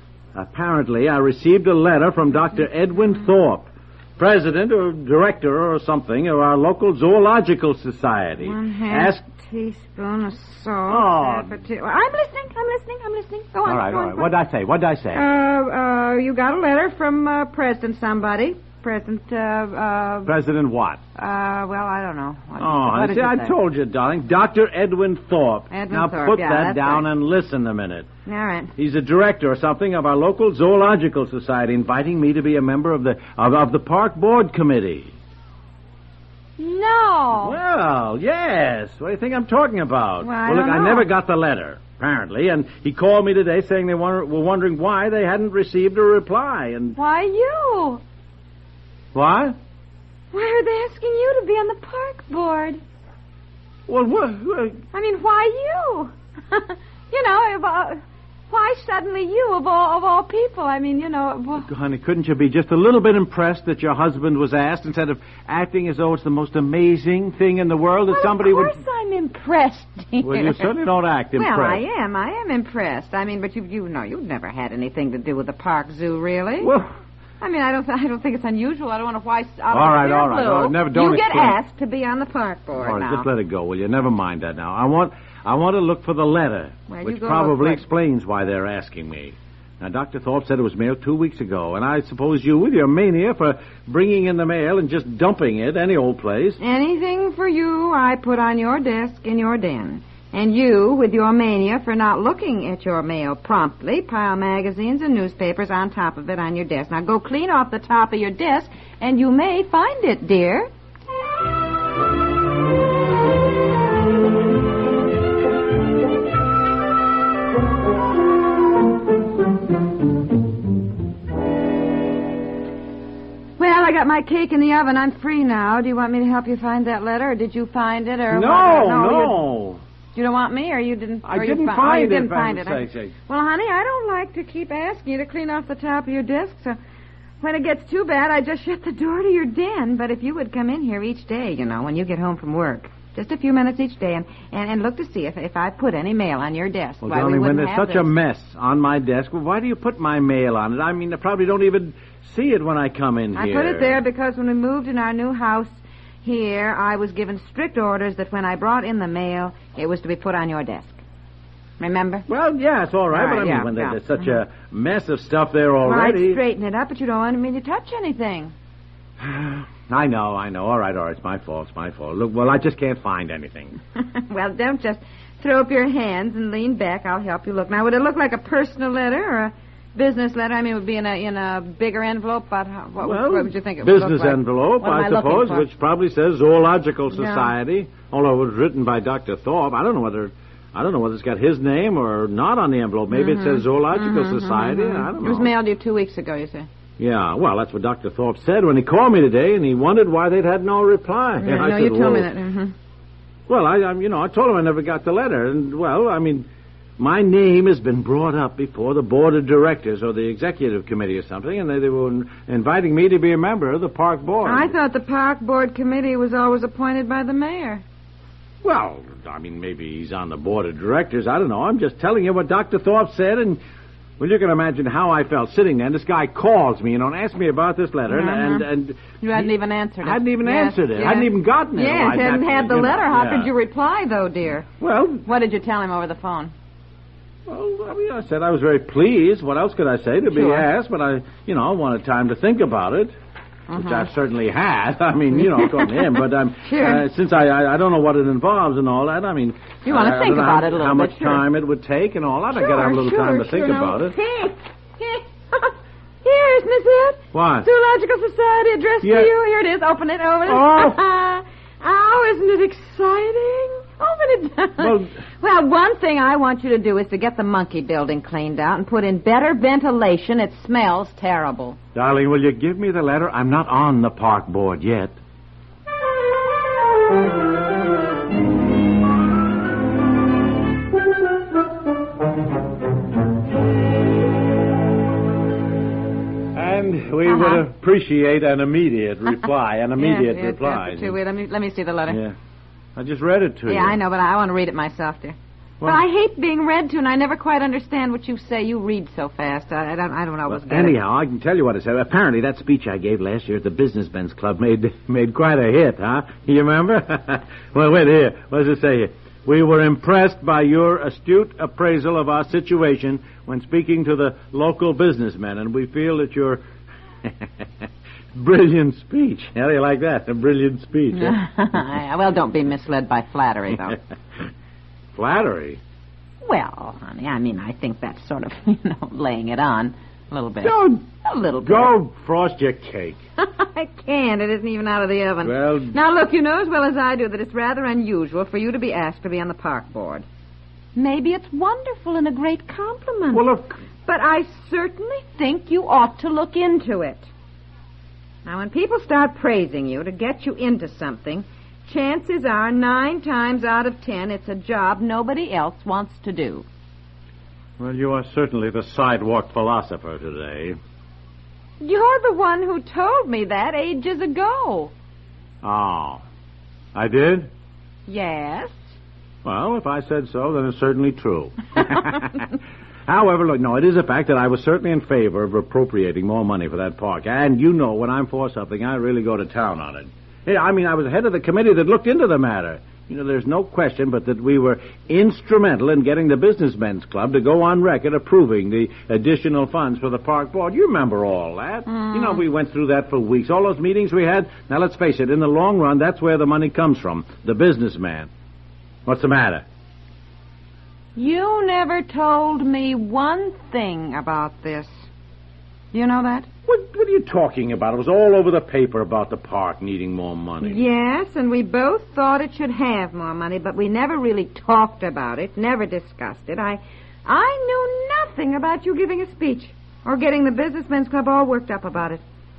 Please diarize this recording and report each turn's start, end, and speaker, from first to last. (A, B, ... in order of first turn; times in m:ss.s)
0:00.4-0:09.2 A
0:08.4-0:14.3 B
0:10.9-0:11.6 A
0:13.7-0:15.2 A
0:15.1-0:20.3 B
0:20.2-0:21.0 A
0:21.2-0:23.6 B
0:22.6-0:28.1 A
0:25.7-0:27.1 B
0:28.3-0:28.7 B
0:28.8-0:35.1 A
0:36.6-0:37.6 B
0:37.4-0:47.0 A
0:40.2-0:41.1 B
0:47.0-0:48.0 B
0:49.1-0:49.6 A
0:50.3-0:52.8 B
0:53.9-0:54.8 A
0:54.9-1:01.7 B
1:01.6-1:08.8 A
1:08.1-1:10.7 B
1:10.2-1:11.8 A
1:11.4-1:16.7 B
1:16.6-1:16.9 A
1:17.4-1:23.3 B
1:19.7-1:21.6 A
1:22.7-1:36.6 A
1:26.9-1:27.8 B
1:36.6-1:50.7 B
2:03.6-2:09.4 B
2:08.3-2:09.8 A
2:10.2-2:16.8 B
2:11.2-2:13.1 A
2:17.4-2:28.1 B
2:27.0-2:34.0 A
2:33.3-2:41.0 B
2:41.8-2:42.3 B
2:42.3-2:46.4 A
2:43.1-2:44.0 B
2:45.8-2:48.5 B
2:49.2-2:53.8 A
2:54.0-3:05.7 B
3:03.0-3:15.5 A
3:07.1-3:07.5 B
3:13.1-3:16.7 B
3:17.0-3:22.3 A
3:21.4-3:22.7 B
3:23.5-3:26.5 A
3:27.0-3:34.7 A
3:34.4-3:37.8 B
3:38.6-3:43.6 A
3:44.2-3:53.5 A
3:48.1-3:48.7 B
3:49.2-3:54.7 B
3:54.8-3:55.3 A
3:55.2-3:56.5 B
3:57.5-4:03.1 A
4:00.3-4:00.7 B
4:03.7-4:04.1 B
4:03.7-4:14.2 A
4:06.6-4:07.1 B
4:09.8-4:11.4 B
4:12.5-4:31.8 B
4:17.3-4:17.7 A
4:19.0-4:19.3 A
4:20.5-4:21.0 A
4:24.8-4:25.2 A
4:32.0-4:35.2 A
4:46.6-4:51.2 A
4:47.2-4:47.6 B
4:50.0-4:52.2 B
4:52.1-4:52.4 A
4:53.0-4:54.0 A
4:53.7-5:01.0 B
5:00.5-5:16.6 A
5:18.4-5:21.4 A
5:21.1-5:24.0 B
5:25.1-5:25.8 A
5:26.4-5:31.9 B
5:30.6-5:31.0 A
5:31.6-5:33.2 A
5:33.4-5:40.2 B
5:35.4-5:36.0 A
5:41.0-5:43.5 B
5:43.3-5:43.8 A
5:44.1-5:47.3 B
5:48.4-5:56.7 B
5:57.8-6:00.8 A
6:01.8-6:04.9 B
6:05.6-6:06.2 A
6:06.9-6:07.5 A
6:08.1-6:08.9 B
6:09.4-6:12.4 A
6:13.1-6:38.3 A
6:31.9-6:32.4 B
6:39.1-6:39.6 A
6:41.2-6:45.1 B
6:45.9-6:46.5 B
6:46.7-6:50.8 A
6:50.6-7:02.2 B